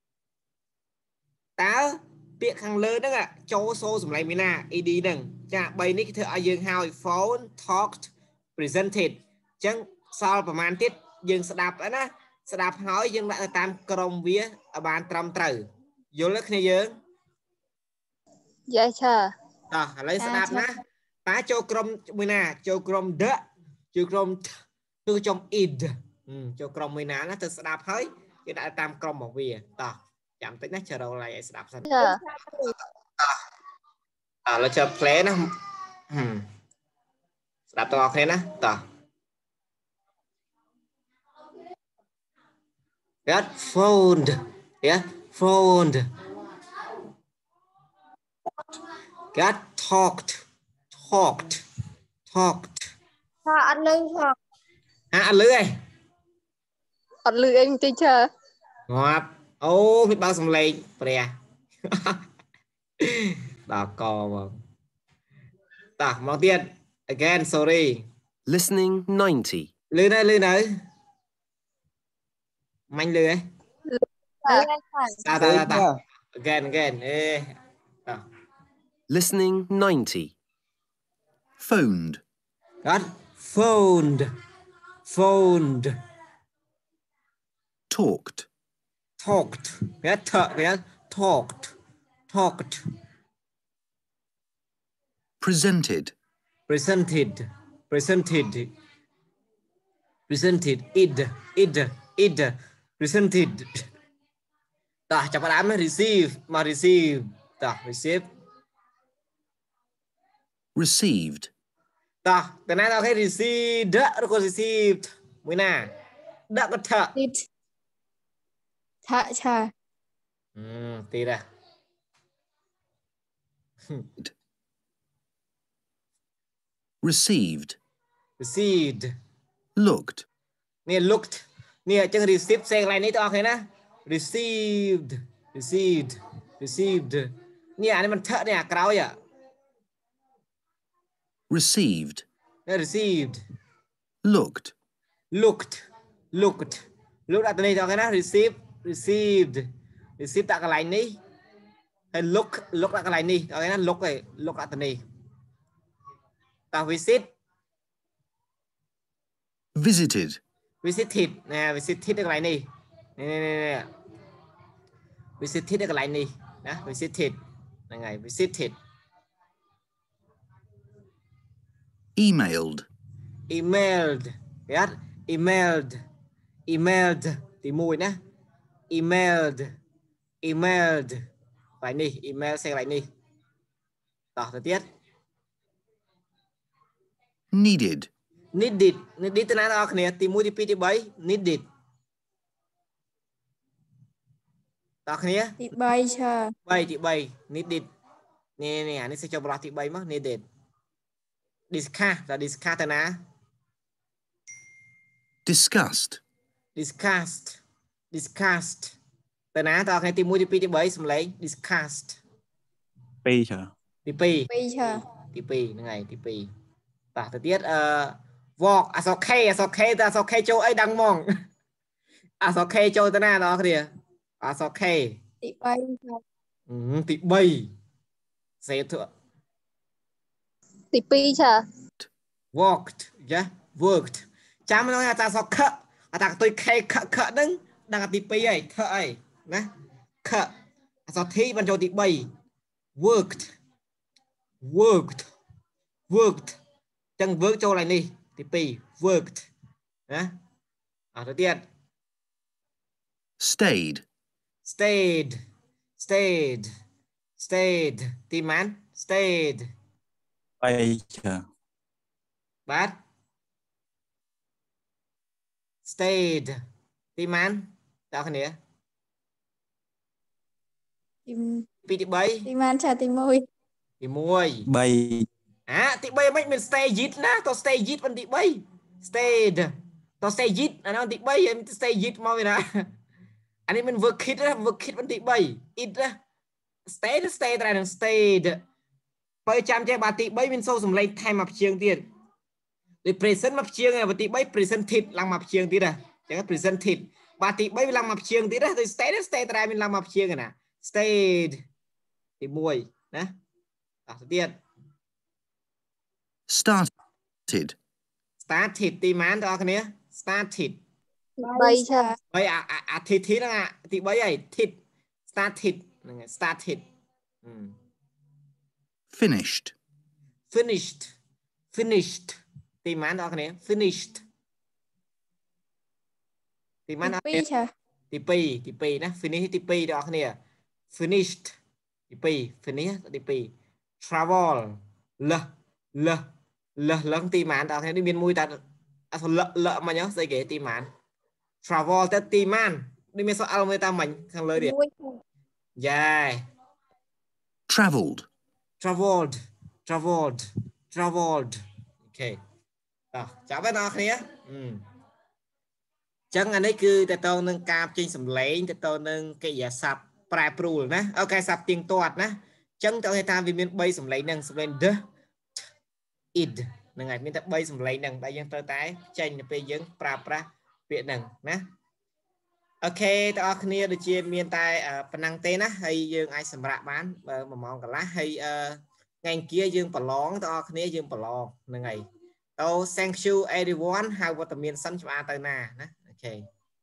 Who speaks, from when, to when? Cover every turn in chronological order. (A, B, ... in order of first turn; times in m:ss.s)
0:01.6-0:16.9 A
0:18.7-0:19.3 B
0:19.7-0:23.4 A
0:20.2-0:20.7 C
0:23.9-0:24.5 A
0:25.0-0:31.9 A
0:31.8-0:32.2 B
0:34.4-0:35.5 A
0:36.1-0:36.4 A
0:37.7-0:38.8 A
0:43.3-0:46.0 A
0:49.3-0:50.4 A
0:51.0-0:51.6 A
0:52.3-0:52.8 A
0:53.4-0:54.3 C
0:55.1-0:55.7 A
0:57.2-0:58.3 B
0:58.9-1:01.3 A
1:01.9-1:02.2 A
1:03.0-1:04.5 A
1:06.0-1:08.0 A
1:08.5-1:09.7 D
1:09.9-1:10.7 A
1:12.9-1:13.4 A
1:13.9-1:14.7 B
1:14.4-1:15.2 C
1:15.2-1:17.5 A
1:15.3-1:16.0 D
1:19.1-1:20.3 D
1:21.6-1:22.2 E
1:22.8-1:24.3 A
1:25.0-1:25.9 A
1:27.9-1:28.5 E
1:29.2-1:31.7 A
1:32.3-1:32.8 A
1:35.4-1:36.1 E
1:36.7-1:38.7 A
1:40.3-1:43.8 A
1:45.1-1:48.2 A
1:50.8-1:51.5 E
1:52.2-1:55.9 A
1:56.5-1:57.1 A
1:57.2-1:57.4 C
1:59.0-1:59.7 C
2:00.6-2:01.4 A
2:07.0-2:07.8 E
2:08.4-2:09.1 A
2:09.8-2:10.2 E
2:10.9-2:19.1 A
2:21.5-2:22.2 E
2:22.7-2:23.4 A
2:24.2-2:24.7 E
2:25.3-2:29.7 A
2:30.2-2:31.2 A
2:32.1-2:35.0 A
2:36.7-2:37.3 A
2:39.7-2:40.4 E
2:40.8-2:42.6 A
2:43.2-2:43.9 A
2:45.4-2:47.4 A
2:47.9-2:48.7 A
2:52.2-2:52.9 E
2:53.5-2:56.0 A
2:56.7-2:58.2 A
2:58.9-2:59.7 A
3:00.4-3:01.2 A
3:01.8-3:03.0 A
3:04.4-3:04.8 A
3:07.5-3:08.1 E
3:08.5-3:11.6 A
3:15.0-3:15.6 A
3:15.6-3:16.5 C
3:16.6-3:17.9 A
3:18.6-3:20.4 A
3:21.7-3:23.1 A
3:25.4-3:26.2 E
3:26.8-3:27.6 A
3:28.1-3:28.9 A
3:29.5-3:32.2 A
3:33.2-3:33.7 F
3:34.0-3:36.5 A
3:34.5-3:35.0 C
3:37.1-3:41.2 A
3:42.4-3:43.9 A
3:44.4-3:45.2 A
3:45.4-3:46.2 C
3:46.7-3:47.7 A
3:48.6-3:49.1 A
3:50.9-3:51.6 B
3:52.5-3:59.7 A
4:00.2-4:00.5 A
4:01.1-4:02.3 A
4:03.0-4:03.5 A
4:04.6-4:05.3 A
4:06.1-4:06.6 A
4:07.2-4:09.5 A
4:11.1-4:11.6 A
4:13.4-4:14.0 E
4:14.6-4:15.4 A
4:16.0-4:16.7 A
4:17.4-4:19.7 A
4:20.6-4:21.4 F
4:22.7-4:22.9 A
4:25.8-4:26.6 A
4:27.2-4:28.6 A
4:31.2-4:31.6 C
4:31.9-4:32.5 A
4:32.4-4:33.5 C
4:34.0-4:34.6 A
4:34.7-4:35.3 F
4:35.7-4:42.8 A
4:43.7-4:46.1 A
4:46.9-4:48.6 A
4:49.4-4:52.0 A
4:53.0-5:01.6 A
5:02.4-5:03.3 A
5:04.1-5:04.6 A
5:06.5-5:06.9 E
5:07.5-5:07.8 E
5:08.4-5:10.8 A
5:11.4-5:12.1 B
5:11.4-5:12.1 C
5:12.3-5:14.8 A
5:15.3-5:16.8 A
5:17.4-5:17.7 A
5:19.1-5:19.7 E
5:20.5-5:21.1 A
5:21.7-5:24.2 A
5:26.9-5:27.4 A
5:27.0-5:27.7 C
5:28.1-5:30.4 A
5:30.9-5:31.5 A
5:32.1-5:36.2 A
5:36.8-5:38.6 A
5:39.1-5:40.9 A
5:41.6-5:44.7 A
5:44.6-5:45.1 C
5:45.8-5:46.4 A
5:47.7-5:48.3 E
5:48.8-5:49.3 A
5:49.8-5:51.5 A
5:52.1-5:52.4 A
5:53.1-5:54.8 A
5:56.3-6:05.0 A
6:06.3-6:11.6 A
6:12.8-6:22.0 A
6:22.6-6:26.4 A